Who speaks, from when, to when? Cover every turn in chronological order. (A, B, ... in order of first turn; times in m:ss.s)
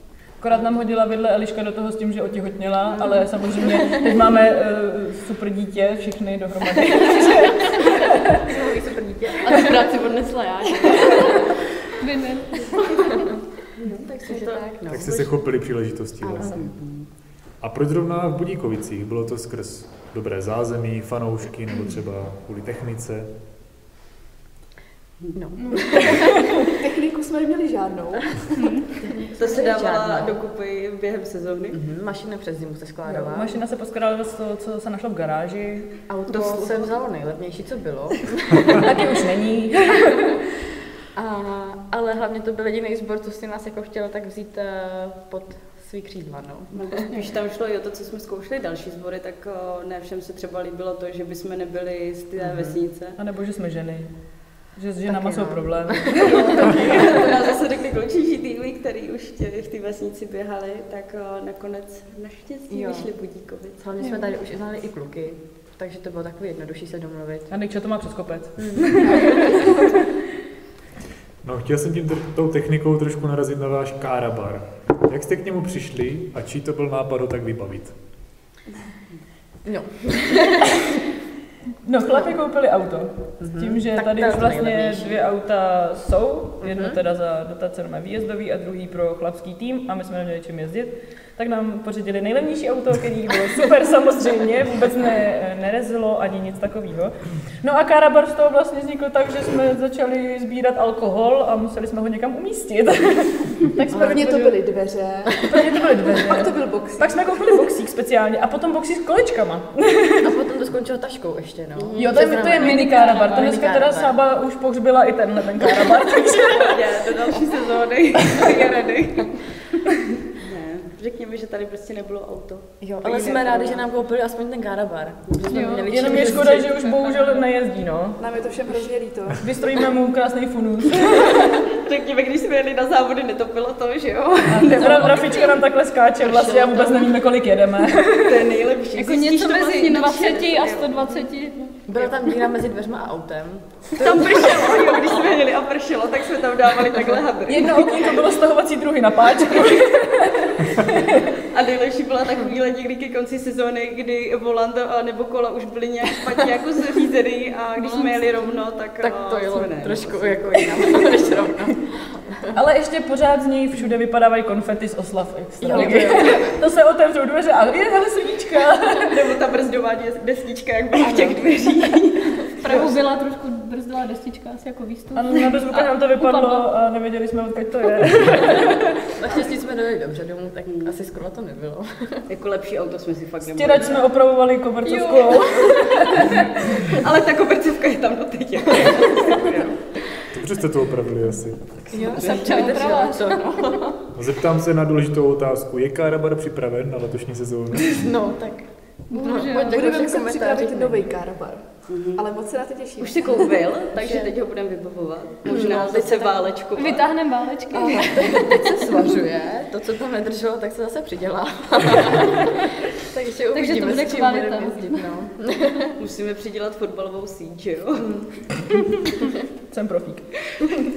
0:00.4-0:08.3 A
0:02.9-0:04.1 B
0:06.9-0:11.5 B
0:12.0-0:13.2 C
0:13.0-0:13.3 B
0:13.8-0:14.6 D
0:13.8-0:15.5 B
0:14.9-0:16.5 E
0:16.2-0:16.7 B
0:16.5-0:17.1 D
0:17.6-0:23.3 E
0:25.4-0:26.4 B
0:25.6-0:26.1 C
0:26.6-0:28.6 F
0:28.6-0:28.9 C
0:29.0-0:30.4 B
0:29.4-0:31.8 D
0:31.7-0:33.6 B
0:33.1-0:36.0 A
0:36.1-0:39.0 B
0:36.3-0:36.9 D
0:38.8-0:40.4 A
0:41.2-0:47.2 B
0:46.7-0:53.2 D
0:52.4-0:52.8 B
0:53.2-0:57.1 A
0:55.0-0:57.2 B
0:56.6-1:03.8 D
1:02.7-1:03.1 B
1:03.8-1:07.5 B
1:07.5-1:09.6 A
1:08.6-1:09.6 B
1:09.2-1:09.8 F
1:11.4-1:18.0 E
1:19.6-1:20.9 B
1:21.8-1:44.6 A
1:22.1-1:22.4 B
1:23.4-1:25.2 B
1:26.6-1:27.0 B
1:43.9-1:47.2 F
1:45.4-1:50.3 A
1:45.5-1:45.8 B
1:50.2-1:54.1 B
1:51.8-1:53.4 D
1:52.0-1:56.8 A
1:56.4-1:59.4 D
2:00.4-2:03.9 D
2:02.8-2:07.2 B
2:05.3-2:05.7 D
2:05.5-2:06.0 C
2:05.9-2:08.2 A
2:08.2-2:09.5 F
2:09.4-2:11.6 A
2:11.6-2:15.6 D
2:14.5-2:18.4 A
2:14.8-2:15.4 B
2:16.3-2:17.0 B
2:16.3-2:16.7 D
2:18.1-2:21.3 D
2:19.0-2:21.6 C
2:21.9-2:25.4 B
2:24.0-2:28.0 D
2:27.5-2:31.3 A
2:31.5-2:41.5 D
2:37.8-2:38.5 C
2:39.0-2:42.5 B
2:42.5-2:49.2 A
2:45.6-2:46.6 B
2:49.0-2:52.9 D
2:51.0-2:51.5 B
2:52.6-2:56.7 C
2:55.1-2:58.9 A
2:59.1-3:02.2 B
3:00.7-3:00.9 D
3:02.3-3:04.0 D
3:03.5-3:06.9 A
3:04.8-3:06.5 C
3:06.9-3:09.8 D
3:10.3-3:11.7 E
3:11.9-3:12.4 D
3:11.9-3:14.0 B
3:12.1-3:13.8 C
3:14.2-3:18.0 E
3:17.9-3:21.2 B
3:19.1-3:20.0 C
3:19.3-3:21.6 F
3:21.9-3:22.2 D
3:22.2-3:23.6 F
3:23.0-3:27.1 D
3:24.0-3:24.3 B
3:25.5-3:26.5 B
3:26.8-3:28.5 C
3:27.7-3:36.0 B
3:28.7-3:29.0 F
3:33.5-3:35.0 C
3:36.0-3:38.1 D
3:38.0-3:38.6 B
3:39.7-3:40.9 A